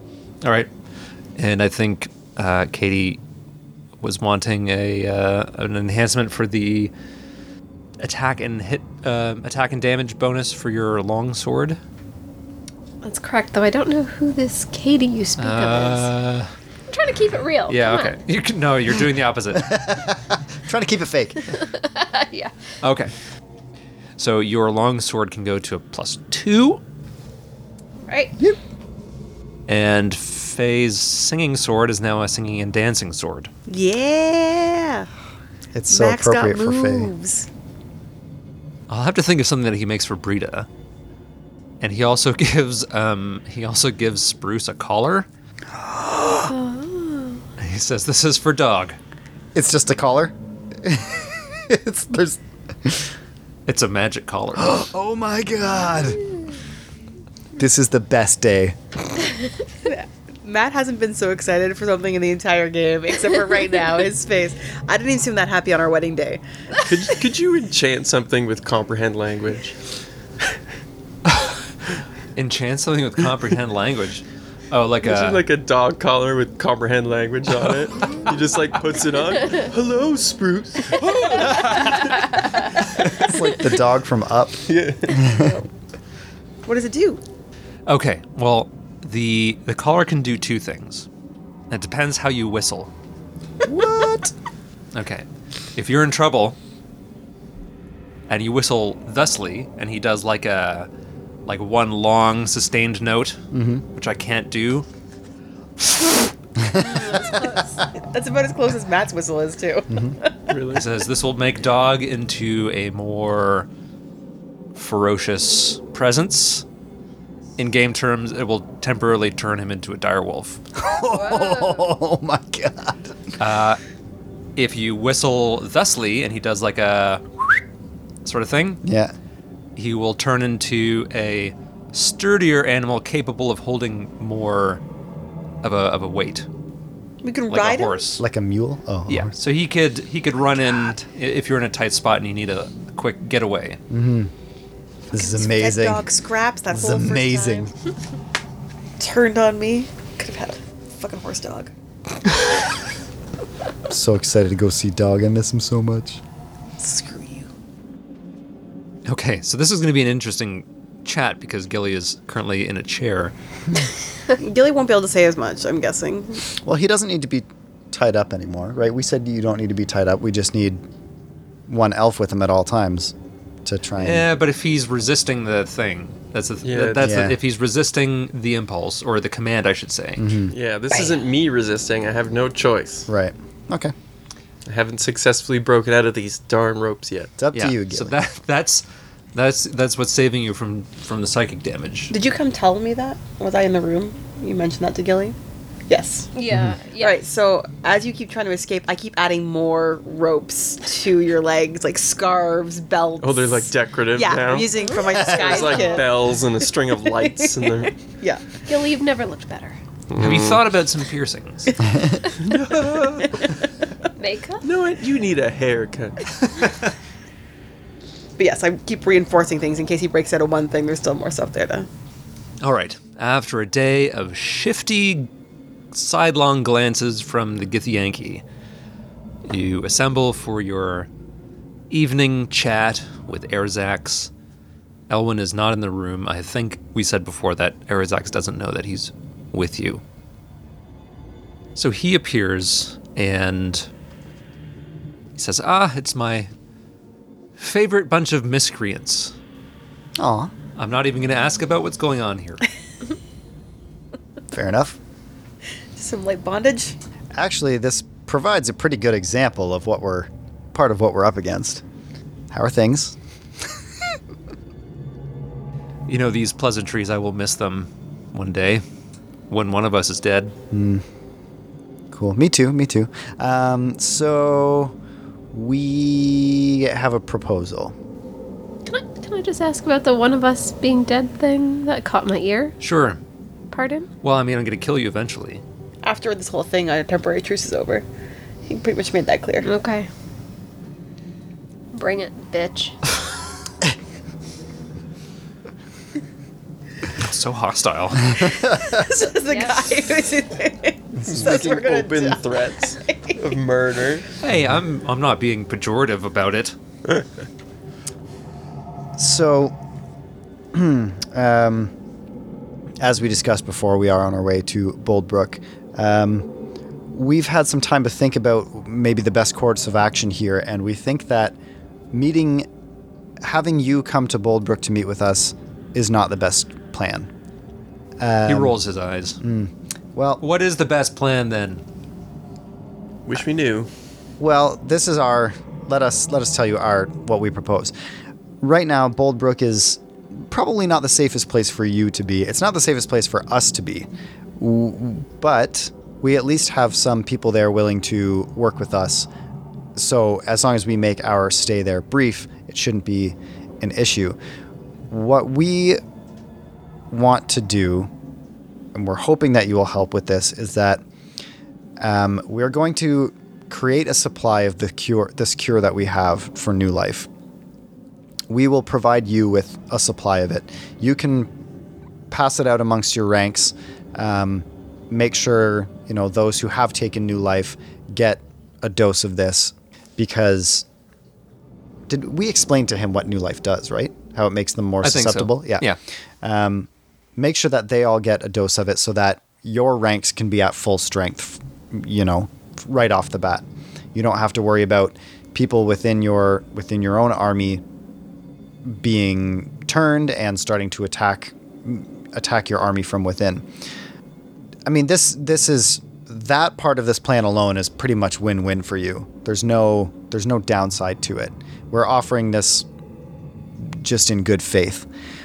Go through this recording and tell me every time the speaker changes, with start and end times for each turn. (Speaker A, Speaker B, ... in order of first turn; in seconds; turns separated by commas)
Speaker A: 0.4-0.7, Speaker A: 1.4-3.2, Speaker A: 4.0-6.9, Speaker A: 8.0-11.8, Speaker B: 13.0-16.1, Speaker A: 15.4-16.5, Speaker B: 16.9-18.1, Speaker A: 17.7-19.9, Speaker C: 19.5-21.6, Speaker B: 21.5-22.5, Speaker A: 22.8-23.1, Speaker A: 24.2-26.8, Speaker B: 28.1-28.3, Speaker A: 29.7-33.5, Speaker D: 33.7-35.1, Speaker C: 35.7-37.1, Speaker D: 35.9-37.5, Speaker A: 38.9-40.7, Speaker A: 41.8-45.3, Speaker C: 45.7-46.5, Speaker B: 46.5-47.4, Speaker A: 47.6-49.0, Speaker C: 49.5-53.1, Speaker A: 53.7-54.9, Speaker C: 54.5-56.3, Speaker C: 57.6-58.8, Speaker D: 59.8-66.4, Speaker E: 66.8-69.7, Speaker A: 71.3-71.6, Speaker A: 72.3-75.4, Speaker E: 75.0-82.4, Speaker A: 81.4-81.9, Speaker C: 83.1-85.5, Speaker E: 84.7-85.2, Speaker D: 85.2-85.6, Speaker D: 86.6-87.2, Speaker A: 87.9-91.1, Speaker A: 91.7-92.9, Speaker C: 93.6-94.3, Speaker A: 94.9-96.5, Speaker A: 98.3-100.9, Speaker A: 101.5-103.4, Speaker C: 103.5-103.8, Speaker A: 103.9-104.8, Speaker C: 106.6-107.2, Speaker D: 107.1-110.4, Speaker B: 107.3-107.6, Speaker E: 110.5-110.8, Speaker A: 110.7-113.7, Speaker A: 114.8-116.6, Speaker A: 117.6-120.6, Speaker C: 120.7-123.3, Speaker A: 123.4-123.8, Speaker A: 124.5-127.5, Speaker A: 128.2-128.8, Speaker C: 128.8-129.1, Speaker A: 129.8-134.8, Speaker A: 135.6-136.5, Speaker D: 137.2-138.0, Speaker A: 137.5-138.2, Speaker C: 138.2-139.3, Speaker A: 139.1-143.8, Speaker C: 143.9-144.3, Speaker C: 145.1-146.0, Speaker D: 145.1-147.7, Speaker C: 146.7-147.7, Speaker D: 149.0-151.7, Speaker C: 153.9-156.2, Speaker D: 156.8-157.5, Speaker A: 159.1-163.3, Speaker D: 164.4-166.4, Speaker C: 166.6-170.8, Speaker C: 171.7-173.1, Speaker C: 173.6-174.2, Speaker A: 174.0-180.4, Speaker E: 176.6-177.2, Speaker C: 177.0-177.4, Speaker C: 180.2-180.5, Speaker E: 180.5-183.1, Speaker C: 183.1-183.9, Speaker E: 184.7-187.3, Speaker C: 187.4-188.2, Speaker A: 187.5-192.1, Speaker D: 192.1-195.3, Speaker D: 195.9-196.3, Speaker B: 196.3-197.2, Speaker C: 196.5-196.8, Speaker D: 197.0-208.6, Speaker E: 203.2-204.8, Speaker B: 204.8-206.2, Speaker E: 205.3-207.9, Speaker B: 208.7-209.8, Speaker E: 210.1-210.6, Speaker A: 210.2-211.7, Speaker E: 212.4-213.3, Speaker B: 214.2-214.7, Speaker E: 214.6-216.2, Speaker D: 218.4-221.9, Speaker A: 222.6-225.3, Speaker A: 225.9-228.4, Speaker A: 229.4-231.1, Speaker A: 231.9-234.3, Speaker A: 235.1-240.0, Speaker A: 241.8-243.9, Speaker A: 245.3-246.5, Speaker A: 247.6-249.3, Speaker C: 250.2-250.5, Speaker A: 250.8-252.7, Speaker C: 254.5-255.0, Speaker D: 255.9-256.9, Speaker C: 257.3-261.8, Speaker C: 262.5-263.1, Speaker A: 266.1-268.8, Speaker A: 269.5-270.5, Speaker C: 270.7-271.0, Speaker C: 272.1-274.9, Speaker C: 275.5-277.9, Speaker B: 278.9-282.8, Speaker A: 282.8-283.2, Speaker B: 283.7-284.1, Speaker A: 284.2-285.6, Speaker D: 286.0-288.1, Speaker D: 288.7-289.7, Speaker B: 289.6-290.1, Speaker B: 291.9-293.0, Speaker A: 297.1-298.6, Speaker D: 298.8-303.4, Speaker B: 299.4-299.9, Speaker E: 301.2-304.3, Speaker A: 304.4-306.8, Speaker C: 309.2-309.7, Speaker C: 310.7-311.9, Speaker C: 313.0-316.5, Speaker C: 317.1-321.6, Speaker C: 322.1-322.7, Speaker C: 323.4-327.3, Speaker C: 328.2-328.8, Speaker A: 328.4-329.4, Speaker C: 329.4-330.4, Speaker A: 330.4-331.8, Speaker E: 333.2-333.9, Speaker C: 334.4-337.9, Speaker C: 338.6-344.1, Speaker C: 344.6-349.3, Speaker C: 349.9-354.4, Speaker C: 355.1-356.0, Speaker C: 357.1-358.1, Speaker C: 358.9-361.0, Speaker C: 362.0-367.3, Speaker C: 368.5-371.5, Speaker C: 372.3-380.8, Speaker C: 382.1-385.9, Speaker A: 385.0-386.0, Speaker C: 386.4-397.8, Speaker C: 398.8-403.6, Speaker C: 404.9-412.9, Speaker C: 413.8-415.1